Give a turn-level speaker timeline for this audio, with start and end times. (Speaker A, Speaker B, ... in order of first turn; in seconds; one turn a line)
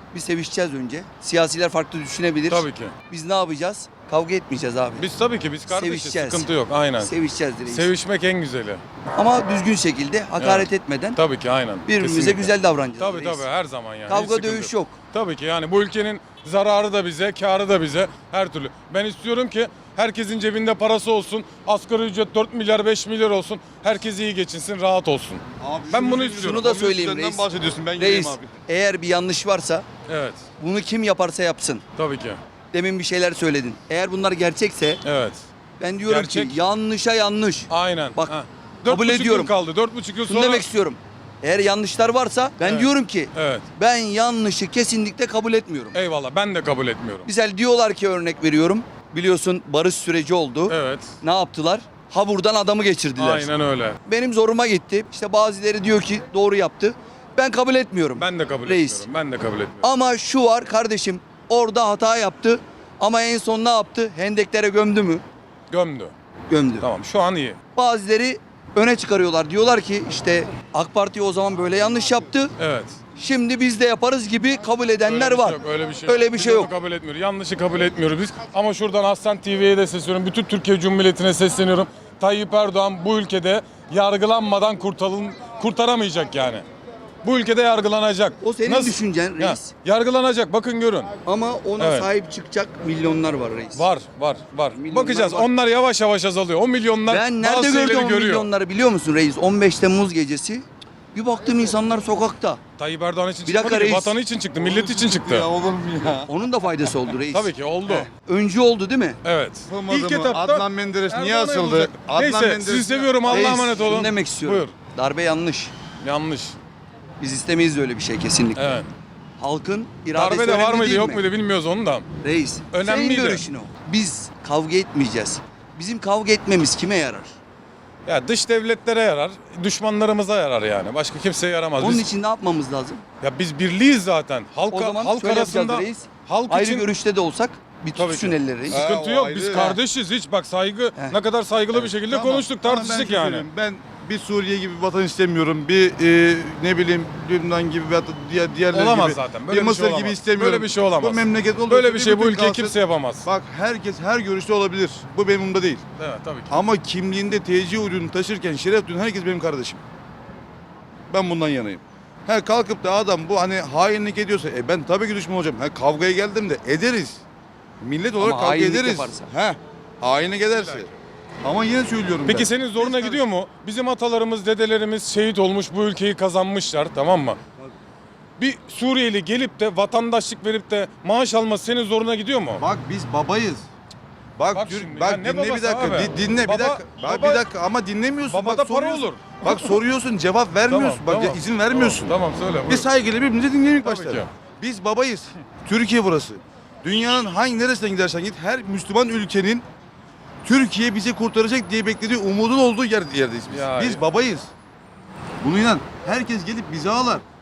Speaker A: 0.1-5.0
Speaker B: 2.5-2.9
Speaker B: 5.0-7.1
Speaker A: 5.7-7.9
Speaker B: 7.7-8.8
Speaker A: 9.1-11.2
Speaker B: 10.4-26.6
Speaker A: 11.8-13.4
Speaker A: 14.1-15.0
Speaker C: 25.6-28.5
Speaker A: 26.3-27.4
Speaker A: 28.0-29.8
Speaker B: 30.1-30.4
Speaker A: 30.6-31.8
Speaker B: 31.9-32.4
Speaker A: 32.7-35.0
Speaker B: 35.0-35.5
Speaker A: 35.8-39.5
Speaker B: 36.0-36.6
Speaker B: 37.7-40.6
Speaker A: 40.2-46.0
Speaker B: 42.6-43.6
Speaker B: 45.9-47.3
Speaker A: 47.2-53.5
Speaker B: 50.7-51.1
Speaker B: 53.2-54.0
Speaker A: 54.0-59.1
Speaker B: 58.1-59.9
Speaker A: 59.8-65.2
Speaker B: 65.7-66.1
Speaker A: 66.5-66.8
Speaker B: 66.8-67.6
Speaker A: 67.7-72.5
Speaker B: 72.6-73.0
Speaker A: 73.2-76.7
Speaker B: 75.0-86.6
Speaker B: 87.2-91.1
Speaker A: 88.4-89.7
Speaker A: 91.2-93.9
Speaker B: 91.8-92.1
Speaker B: 93.7-98.5
Speaker A: 94.7-95.5
Speaker A: 97.1-102.6
Speaker B: 102.8-105.5
Speaker A: 103.5-104.2
Speaker C: 104.6-106.3
Speaker A: 106.2-109.2
Speaker B: 107.3-108.1
Speaker B: 109.2-114.7
Speaker C: 109.7-113.8
Speaker A: 113.3-115.7
Speaker B: 116.0-116.6
Speaker A: 117.2-118.8
Speaker B: 118.5-118.9
Speaker A: 119.4-121.2
Speaker B: 120.1-122.0
Speaker A: 122.2-127.3
Speaker B: 122.7-123.4
Speaker B: 128.1-132.0
Speaker A: 131.8-133.0
Speaker B: 133.2-136.9
Speaker A: 134.7-138.8
Speaker B: 137.9-143.4
Speaker C: 138.7-139.8
Speaker A: 139.5-139.8
Speaker C: 141.8-155.8
Speaker B: 148.7-153.3
Speaker B: 156.0-156.5
Speaker C: 156.5-159.8
Speaker C: 161.1-167.2
Speaker C: 167.8-170.9
Speaker A: 168.2-169.3
Speaker B: 170.5-170.9
Speaker C: 171.4-173.2
Speaker B: 172.2-177.4
Speaker B: 178.4-182.6
Speaker C: 182.6-183.7
Speaker C: 184.4-192.1
Speaker B: 184.5-187.4
Speaker B: 188.3-189.7
Speaker B: 190.7-192.9
Speaker C: 192.7-199.6
Speaker B: 193.8-194.3
Speaker C: 200.4-204.5
Speaker B: 203.5-204.0
Speaker C: 205.4-207.2